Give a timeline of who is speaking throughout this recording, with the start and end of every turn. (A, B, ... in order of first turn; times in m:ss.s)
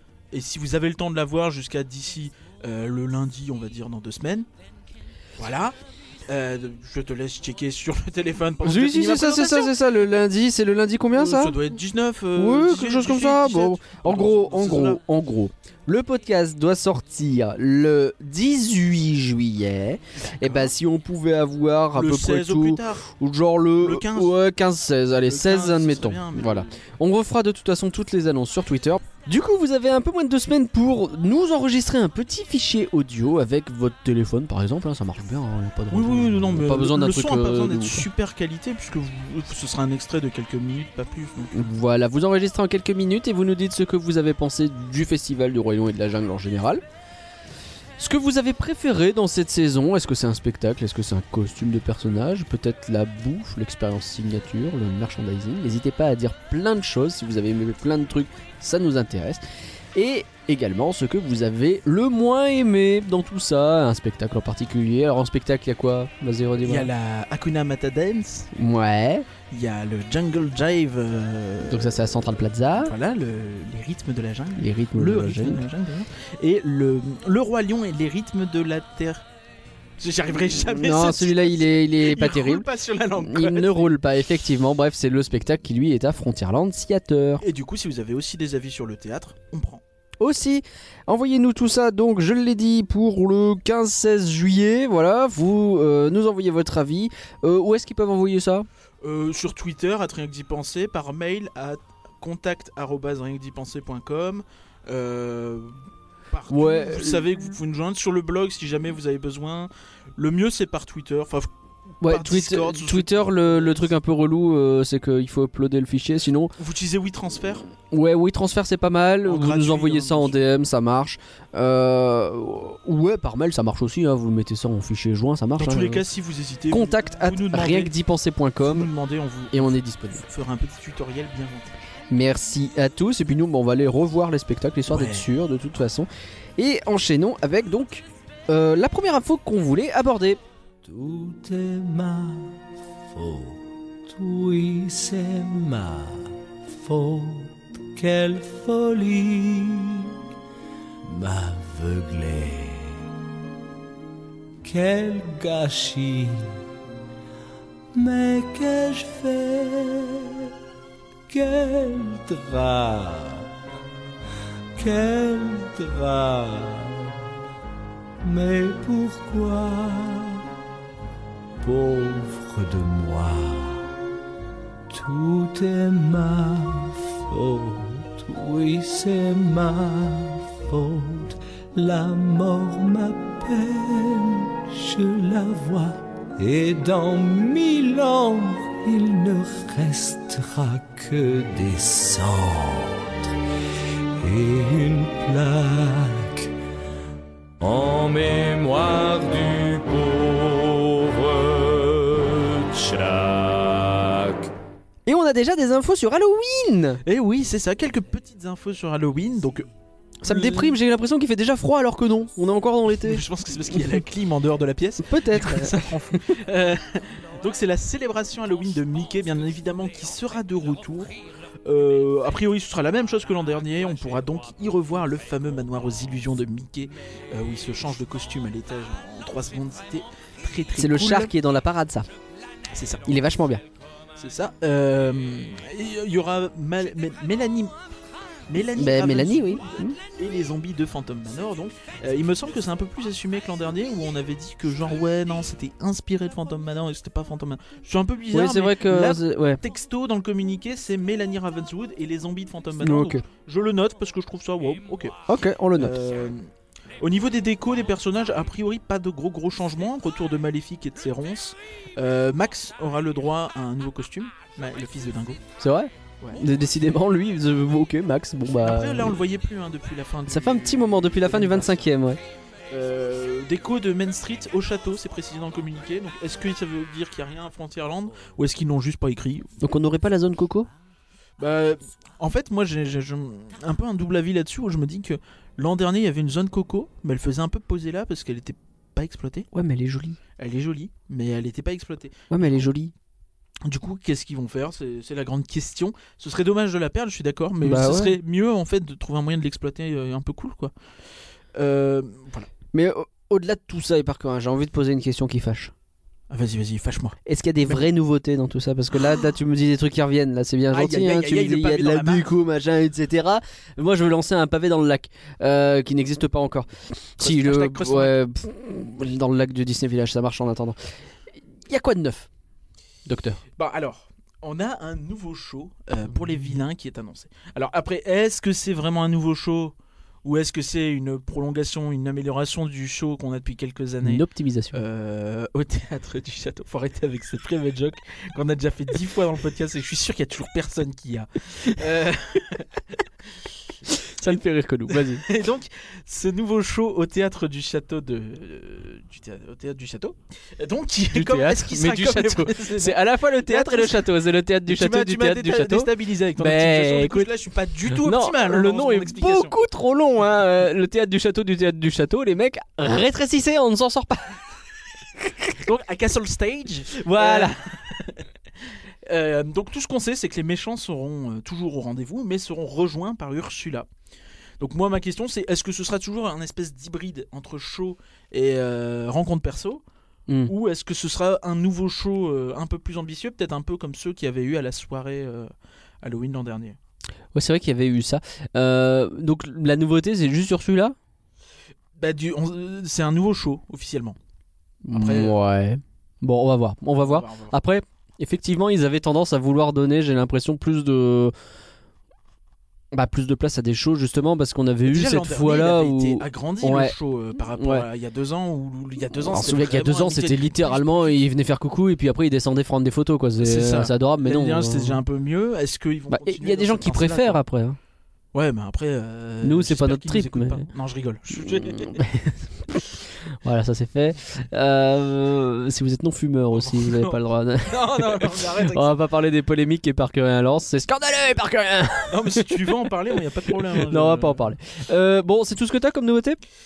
0:00.3-0:04.5 A
0:05.4-0:09.8 A
0:08.6-0:11.6 B
0:11.1-0:15.0 A
0:12.4-0:38.1 B
0:20.2-0:20.7 A
0:21.9-0:23.1 A
0:23.8-0:24.4 A
0:25.2-0:26.8 A
0:35.9-0:41.6 A
0:41.5-0:46.8 B
0:48.0-0:59.4 B
1:00.0-1:06.9 B
1:06.6-1:08.5 A
1:08.5-1:09.3 B
1:09.5-1:12.0 A
1:11.7-1:12.9 B
1:12.8-1:19.3 A
1:14.6-1:15.6 B
1:20.0-1:24.0 A
1:20.7-1:22.7 B
1:23.2-1:27.4 B
1:27.4-1:29.8 A
1:30.2-1:38.7 B
1:39.0-1:45.8 A
1:46.3-1:51.5 A
1:46.5-1:47.2 B
1:52.0-1:56.5 B
1:52.0-1:53.9 A
1:56.6-1:57.7 A
1:57.9-2:06.0 B
1:59.2-2:00.4 A
2:05.6-2:07.9 A
2:06.7-2:08.9 B
2:08.6-2:11.8 A
2:09.5-2:10.2 B
2:12.1-2:20.4 B
2:14.9-2:15.3 A
2:20.8-2:22.6 C
2:23.1-2:30.2 C
2:31.0-2:33.1 C
2:34.6-2:36.6 C
2:37.9-2:40.5 C
2:41.3-2:43.5 C
2:44.8-2:47.2 C
2:48.2-2:50.5 C
2:51.6-2:53.9 C
2:54.9-3:13.3 C
3:14.2-3:16.5 C
3:17.6-3:24.5 C
3:25.1-3:27.0 B
3:27.0-3:29.7 A
3:30.2-3:30.8 A
3:30.2-3:33.2 B
3:32.9-3:51.3 A
3:35.0-3:35.8 B
3:50.8-3:52.1 B
3:52.7-3:53.1 A
3:53.1-3:53.6 B
3:54.2-3:57.8 A
3:58.5-4:15.2 A
3:58.8-4:00.0 B
4:08.3-4:09.6 B
4:12.8-4:13.2 B
4:15.3-4:15.9 B
4:15.7-4:25.4 A
4:25.6-4:29.2 B
4:26.2-4:26.5 A
4:28.6-4:32.0 A
4:30.3-4:32.2 B
4:32.7-4:39.5 A
4:39.6-4:40.7 B
4:41.4-4:49.5 A
4:49.5-4:50.2 B
4:50.4-4:52.7 A
4:52.3-4:52.9 B
4:53.6-5:00.7 A
4:57.6-4:58.2 B
5:01.5-5:02.5 A
5:02.7-5:05.7 B
5:06.3-5:07.8 A
5:07.3-5:20.8 B
5:10.7-5:12.3 A
5:17.2-5:18.2 A
5:21.7-5:22.3 B
5:23.1-5:23.4 B
5:23.6-5:43.0 A
5:34.0-5:34.8 B
5:44.0-5:45.2 B
5:44.2-5:54.1 A
5:51.1-5:57.3 B
5:54.6-5:59.6 A
5:57.9-6:04.4 B
6:05.3-6:05.5 B
6:05.6-6:08.2 A
6:07.0-6:07.6 B
6:09.1-6:13.9 A
6:14.6-6:19.8 A
6:20.3-6:20.5 B
6:20.5-6:25.5 A
6:26.0-6:26.8 A
6:27.3-6:31.0 B
6:32.0-6:34.2 A
6:34.8-6:41.3 B
6:34.9-6:35.4 A
6:37.0-6:37.6 A
6:42.9-6:46.9 B
6:44.9-6:51.2 A
6:47.6-6:47.9 B
6:49.1-6:55.0 B
6:53.4-6:57.4 A
6:56.1-6:57.8 B
6:58.3-7:02.0 A
6:59.4-7:00.7 B
7:01.4-7:12.8 B
7:06.5-7:07.2 A
7:07.7-7:09.0 A
7:12.1-7:14.5 A
7:13.5-7:16.4 B